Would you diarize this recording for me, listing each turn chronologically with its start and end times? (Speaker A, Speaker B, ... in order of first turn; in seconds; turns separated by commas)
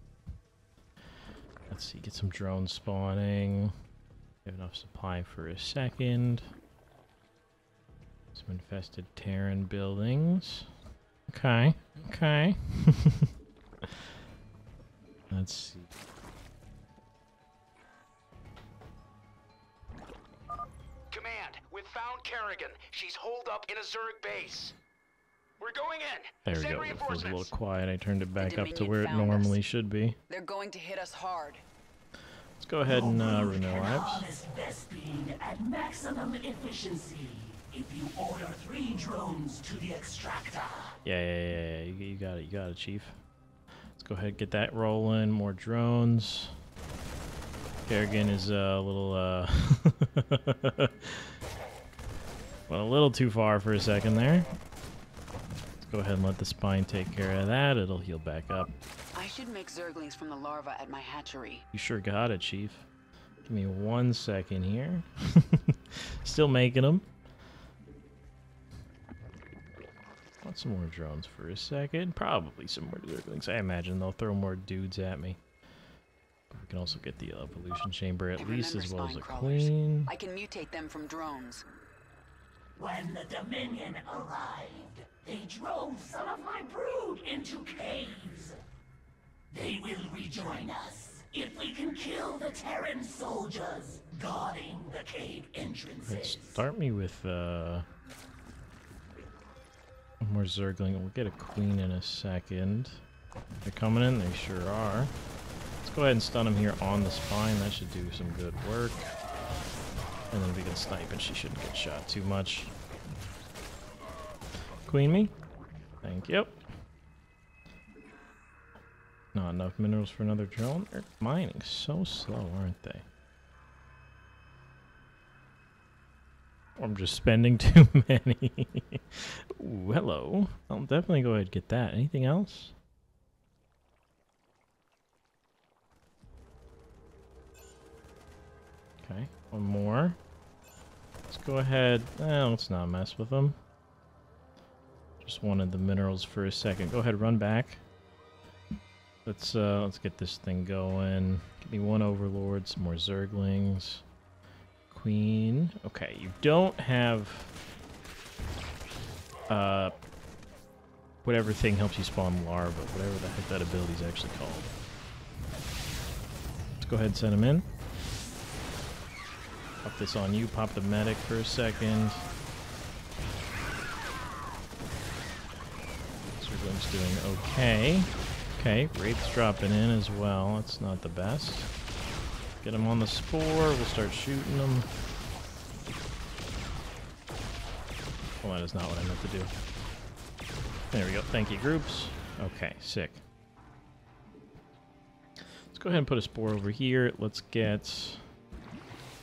Speaker A: 1.7-3.7, Speaker A: 4.4-6.5, Speaker A: 8.3-10.7, Speaker A: 11.3-13.3, Speaker A: 15.3-15.9, Speaker B: 21.1-24.7, Speaker B: 25.6-27.5, Speaker A: 26.4-30.2, Speaker C: 28.4-29.6, Speaker C: 30.3-31.6, Speaker A: 32.6-34.3, Speaker D: 32.9-41.0, Speaker A: 41.0-43.1, Speaker A: 44.0-46.5, Speaker A: 47.9-51.3, Speaker A: 52.7-54.5, Speaker A: 55.8-58.7, Speaker C: 59.1-61.6, Speaker A: 61.7-62.9, Speaker A: 63.4-67.1, Speaker A: 70.4-75.4, Speaker A: 76.5-80.1, Speaker C: 78.4-81.6, Speaker D: 82.8-88.6, Speaker D: 89.5-96.6, Speaker A: 96.1-97.8, Speaker A: 100.2-103.0, Speaker A: 103.6-105.1, Speaker A: 105.8-109.1, Speaker A: 110.3-112.7, Speaker A: 114.8-115.3, Speaker A: 116.0-116.6, Speaker A: 119.3-123.0, Speaker A: 126.8-132.7, Speaker A: 139.0-140.2, Speaker A: 141.3-143.6, Speaker A: 145.2-147.8, Speaker A: 149.2-154.0, Speaker A: 154.9-157.5, Speaker A: 159.5-160.0, Speaker A: 161.2-164.7, Speaker A: 166.8-167.7, Speaker A: 169.8-172.2, Speaker A: 176.3-181.7, Speaker A: 182.6-184.9, Speaker A: 188.4-189.5, Speaker A: 190.9-193.2, Speaker A: 195.6-198.2